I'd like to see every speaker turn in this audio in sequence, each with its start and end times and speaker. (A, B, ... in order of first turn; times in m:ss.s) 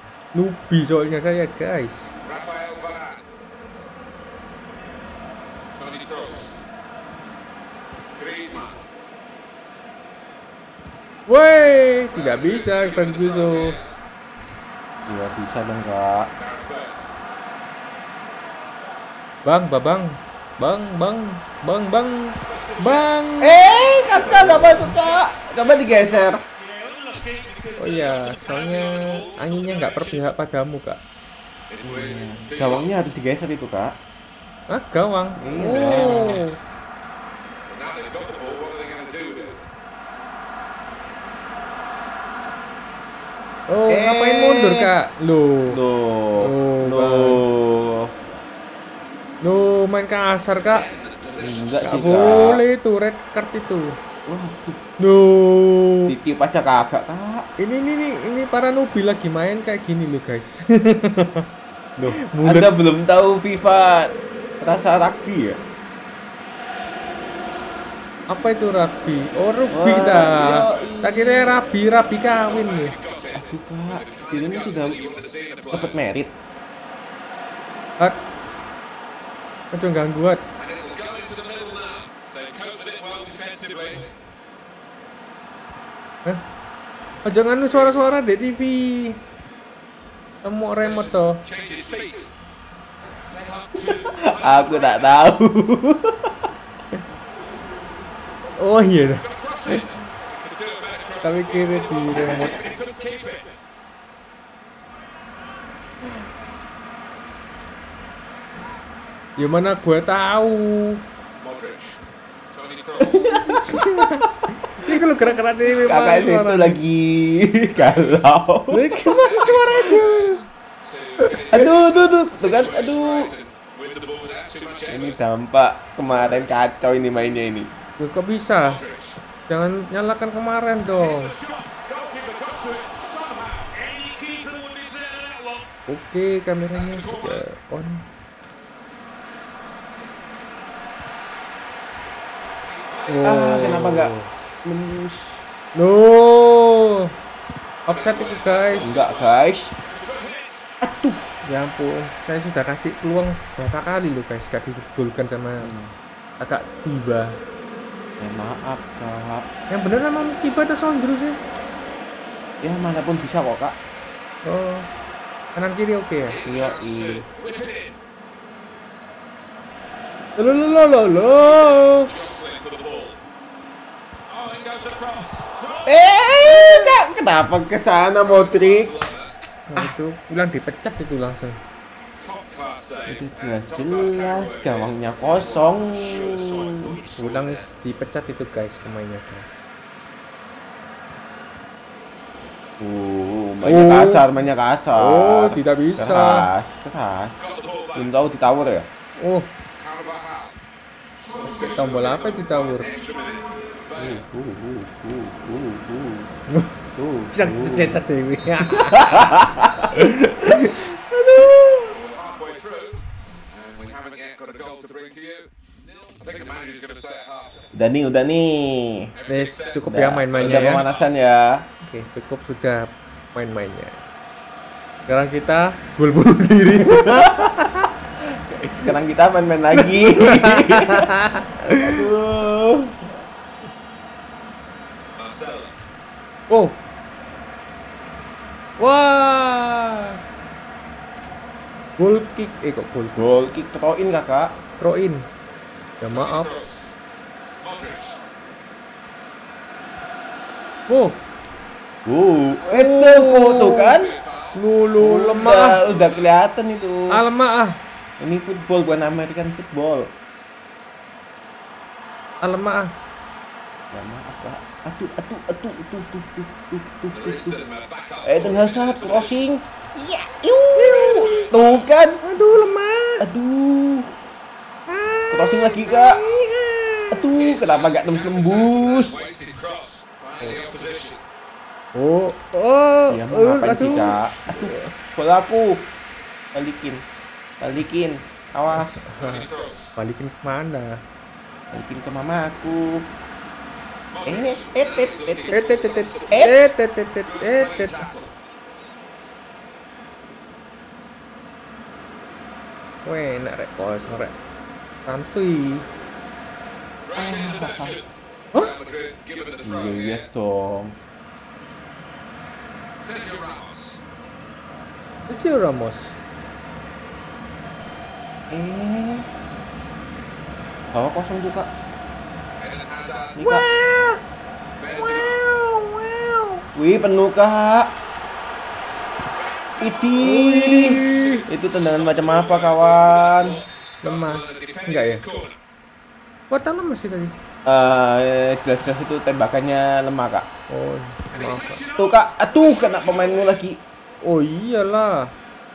0:00.3-0:02.1 A
0:02.2-0:03.2 B
0:05.7-0:06.6 B
0:08.1-0:08.8 B
0:11.3-0:13.8 A
0:12.1-0:13.9 B
0:15.0-0:16.3 C
0:16.4-0:17.0 B
0:19.4-0:23.6 A
0:22.4-0:25.3 B
0:23.4-0:26.4 C
0:26.6-0:30.3 B
0:27.8-0:31.0 A
0:31.7-0:32.9 B
0:31.8-0:33.9 C
0:34.7-0:36.6 A
0:35.4-0:36.4 C
0:35.7-0:36.5 B
0:37.6-0:39.6 B
0:43.7-0:45.8 A
0:43.9-0:44.9 C
0:45.7-0:48.1 C
0:46.4-0:47.4 A
0:49.4-0:50.9 A
0:50.7-0:52.5 B
0:51.4-0:52.6 C
0:51.8-0:54.0 A
0:54.3-0:54.8 C
0:55.0-0:56.1 A
0:56.1-0:57.5 C
0:57.6-1:01.4 A
1:02.0-1:05.6 C
1:02.0-1:02.7 A
1:08.3-1:12.9 A
1:09.7-1:11.5 C
1:10.4-1:10.9 B
1:12.4-1:16.0 B
1:13.3-1:15.0 C
1:15.7-1:16.3 C
1:19.7-1:20.4 A
1:20.6-1:24.1 B
1:27.2-1:29.2 A
1:30.4-1:31.4 A
1:30.9-1:32.3 B
1:33.2-1:35.1 B
1:33.9-1:36.5 C
1:38.6-1:39.2 A
1:39.2-1:43.6 B
1:41.2-1:42.7 A
1:49.4-1:51.0 A
1:51.4-1:52.0 B
1:52.5-1:53.5 B
1:53.0-1:54.2 C
1:53.5-1:56.8 A
1:55.7-1:58.9 C
1:58.7-2:00.4 A
1:59.0-2:05.2 B
2:01.2-2:03.3 C
2:04.9-2:07.7 C
2:08.0-2:08.8 A
2:08.6-2:09.2 B
2:09.5-2:11.4 A
2:11.0-2:15.6 B
2:15.9-2:18.0 A
2:16.8-2:17.4 B
2:22.6-2:23.7 B
2:23.1-2:24.3 A
2:23.2-2:24.1 C
2:24.6-2:25.4 C
2:25.8-2:27.1 A
2:27.9-2:28.9 A
2:27.9-2:30.6 B
2:28.8-2:29.7 C
2:30.8-2:31.2 C
2:31.4-2:35.7 A
2:35.6-2:35.9 C
2:36.4-2:37.4 A
2:38.2-2:39.5 C
2:39.7-2:41.4 A
2:42.6-2:43.8 C
2:44.4-2:44.9 A
2:45.5-2:46.4 A
2:46.3-2:47.9 B
2:46.4-2:47.2 C
2:50.4-2:52.1 A
2:51.4-2:53.2 B
2:54.3-2:56.3 B
2:55.8-2:58.9 C
2:58.2-2:59.3 B
2:59.7-3:01.6 A
3:02.2-3:07.6 B
3:03.1-3:07.0 C
3:07.2-3:09.6 A
3:12.8-3:17.4 C
3:13.6-3:14.3 A
3:14.9-3:16.5 A
3:17.4-3:18.1 B
3:17.9-3:18.9 C
3:19.2-3:19.5 A
3:19.8-3:20.6 B
3:21.2-3:24.2 B
3:21.4-3:22.9 A
3:24.0-3:26.3 C
3:26.5-3:26.8 A
3:26.9-3:28.0 C
3:27.3-3:29.4 A
3:28.7-3:32.0 C
3:29.9-3:30.2 A
3:31.9-3:37.7 B
3:37.7-3:39.1 C
3:39.1-3:41.0 B
3:39.3-3:40.9 A
3:39.9-3:41.6 C
3:41.8-3:44.0 A
3:45.1-3:47.9 A
3:46.6-3:47.7 C
3:48.2-3:51.2 C
3:49.7-3:52.0 A
3:51.8-3:53.0 C
3:55.2-3:55.7 B
3:56.5-3:56.8 A
3:58.8-4:00.2 A
4:02.0-4:03.3 A
4:03.2-4:04.5 C
4:04.8-4:05.2 A
4:06.0-4:06.5 A
4:06.1-4:06.9 B
4:07.6-4:08.2 B
4:10.9-4:11.2 A
4:12.0-4:14.1 C
4:12.7-4:13.9 A
4:13.9-4:14.6 B
4:14.5-4:15.8 A
4:15.0-4:17.2 C
4:15.5-4:16.4 B
4:17.1-4:17.8 A
4:18.2-4:20.1 C
4:22.4-4:22.9 A
4:23.9-4:27.6 C
4:27.1-4:29.4 B
4:28.2-4:32.2 C
4:30.8-4:31.3 A
4:30.8-4:31.9 B
4:32.2-4:33.3 A
4:33.2-4:34.2 C
4:34.9-4:37.2 A
4:35.3-4:36.2 C
4:37.1-4:39.2 C
4:37.3-4:41.2 B
4:41.9-4:44.9 A
4:43.1-4:45.9 C
4:46.5-4:47.0 C
4:47.6-4:49.0 C
4:49.0-4:49.4 A
4:49.1-4:49.9 B
4:50.0-4:51.0 A
4:51.7-4:53.0 C
4:54.1-4:56.6 B
4:54.2-4:55.8 C
4:55.5-4:58.0 A
4:56.3-4:56.6 C
4:57.2-4:58.3 B
5:03.0-5:04.4 A
5:05.0-5:05.9 A
5:07.1-5:10.3 B
5:07.2-5:08.0 C
5:09.6-5:10.9 C
5:13.0-5:14.0 B
5:15.3-5:16.1 A
5:18.5-5:19.3 C
5:20.9-5:21.7 C
5:22.6-5:23.4 B
5:23.4-5:23.6 C
5:23.4-5:24.2 A
5:24.8-5:25.4 B
5:25.1-5:26.6 A
5:26.8-5:27.9 C
5:29.4-5:30.1 B
5:29.8-5:33.6 C
5:30.2-5:31.4 A
5:30.8-5:35.6 B
5:34.0-5:35.2 A
5:36.5-5:37.3 A
5:37.6-5:40.5 C
5:40.7-5:41.8 A
5:41.3-5:43.6 B
5:42.0-5:43.8 C
5:44.2-5:45.3 A